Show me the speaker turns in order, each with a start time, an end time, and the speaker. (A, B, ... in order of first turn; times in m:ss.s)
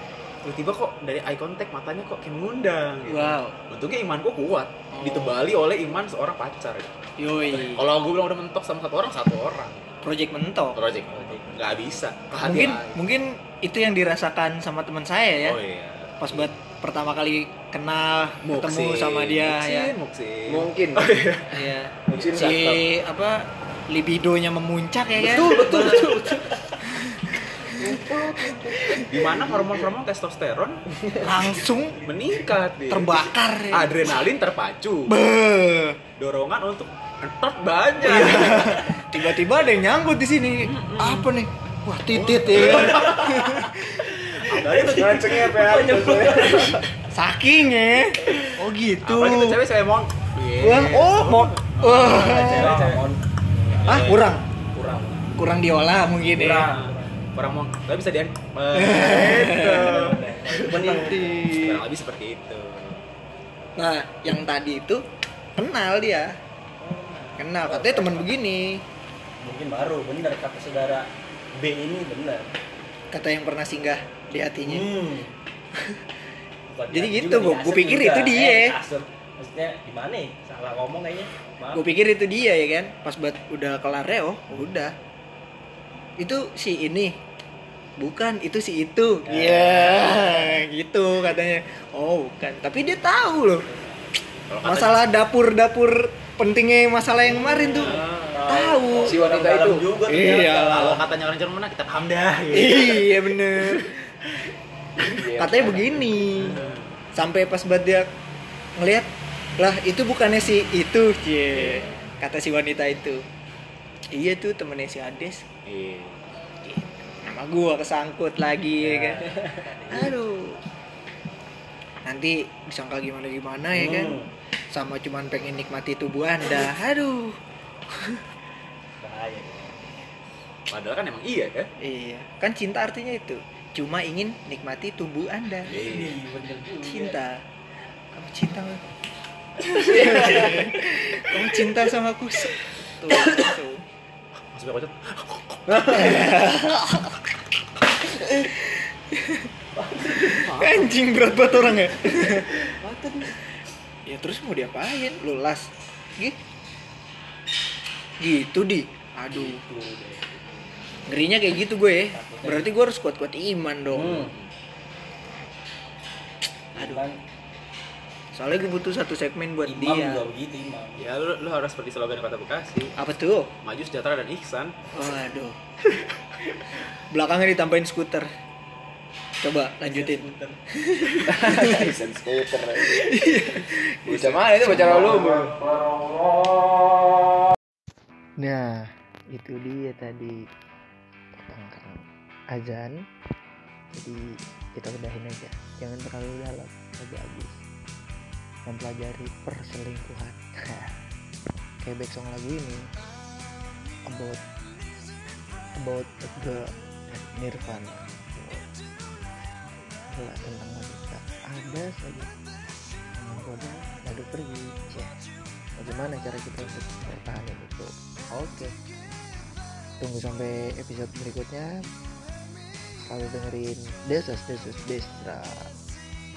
0:00.4-0:06.9 A
0:03.1-0:03.6 B
0:04.9-0:05.4 B
0:07.2-0:07.9 B
0:07.5-0:09.8 A
0:10.0-0:10.8 B
0:10.8-0:12.9 A
0:11.1-0:11.8 C
0:12.4-0:15.6 B
0:15.4-0:16.5 A
0:16.2-0:19.9 B
0:18.4-0:21.6 A
0:20.5-0:21.2 D
0:21.5-0:26.2 B
0:22.0-0:22.8 D
0:25.2-0:26.7 C
0:25.3-0:26.3 D
0:26.8-0:28.0 B
0:27.8-0:29.9 D
0:29.1-0:30.8 A
0:31.2-0:32.4 C
0:31.2-0:32.0 B
0:32.0-0:35.1 A
0:32.9-0:34.1 B
0:35.1-0:36.0 B
0:36.2-0:39.1 A
0:38.0-0:44.3 B
0:40.6-0:41.3 A
0:42.1-0:43.2 A
0:42.9-0:43.5 C
0:44.4-0:45.5 A
0:44.7-0:46.8 C
0:44.8-0:46.8 D
0:47.1-0:49.6 B
0:49.0-0:53.0 A
0:50.6-0:52.7 B
0:52.0-0:54.2 C
0:53.8-0:54.3 A
0:53.8-0:54.4 B
0:54.7-0:55.2 C
0:55.4-0:56.7 B
0:56.3-0:57.2 C
0:56.6-1:00.8 A
0:58.7-0:59.9 B
0:59.6-1:01.6 C
1:00.7-1:01.8 B
1:01.5-1:03.0 A
1:03.8-1:05.0 B
1:05.6-1:06.3 B
1:06.8-1:08.3 C
1:07.4-1:08.8 B
1:09.4-1:12.5 C
1:13.1-1:14.9 B
1:14.6-1:15.3 C
1:16.7-1:21.8 C
1:16.9-1:18.8 B
1:21.7-1:24.9 B
1:26.2-1:27.2 B
1:28.0-1:33.7 B
1:29.2-1:30.6 C
1:33.7-1:34.0 C
1:34.5-1:35.0 A
1:34.6-1:39.2 B
1:37.3-1:38.4 A
1:37.7-1:41.1 C
1:39.0-1:40.4 D
1:40.6-1:43.9 A
1:42.5-1:44.0 B
1:45.0-1:46.2 D
1:45.3-1:46.6 B
1:46.3-1:46.9 A
1:47.2-1:48.0 B
1:48.8-1:53.2 B
1:54.1-1:55.4 B
1:55.6-1:56.2 A
1:56.6-1:59.2 B
1:58.8-2:00.2 C
1:59.9-2:00.5 B
2:02.0-2:04.2 B
2:03.7-2:04.3 C
2:04.7-2:07.4 B
2:09.0-2:09.8 C
2:10.7-2:11.7 A
2:11.8-2:15.7 B
2:15.6-2:17.2 C
2:15.7-2:16.2 A
2:16.8-2:17.3 B
2:18.1-2:18.8 B
2:19.6-2:23.8 B
2:19.9-2:20.6 C
2:24.5-2:26.4 A
2:25.7-2:27.2 B
2:28.4-2:29.5 B
2:29.7-2:30.4 C
2:30.1-2:32.5 B
2:30.1-2:31.0 A
2:32.0-2:33.3 C
2:34.0-2:36.3 B
2:38.2-2:39.6 B
2:39.3-2:40.4 C
2:41.1-2:44.3 B
2:42.1-2:42.7 C
2:43.9-2:44.3 C
2:46.7-2:47.2 C
2:46.8-2:47.0 B
2:48.3-2:50.2 B
2:49.6-2:51.1 C
2:51.0-2:52.9 A
2:53.0-2:53.5 B
2:53.6-2:54.8 A
2:54.9-2:55.6 B
2:57.1-2:58.3 B
2:59.4-3:00.3 B
2:59.8-3:00.6 C
3:00.8-3:01.9 B
3:01.2-3:03.0 D
3:02.7-3:05.4 B
3:04.0-3:05.6 D
3:04.7-3:05.1 E
3:08.4-3:10.4 E
3:11.4-3:13.0 E
3:13.9-3:14.2 E
3:14.8-3:17.6 E
3:18.7-3:20.9 E
3:21.8-3:22.8 E
3:24.1-3:24.4 E
3:25.8-3:28.7 E
3:30.1-3:32.3 E
3:33.2-3:35.1 E
3:35.8-3:38.7 E
3:40.0-3:41.7 E
3:43.0-3:45.7 E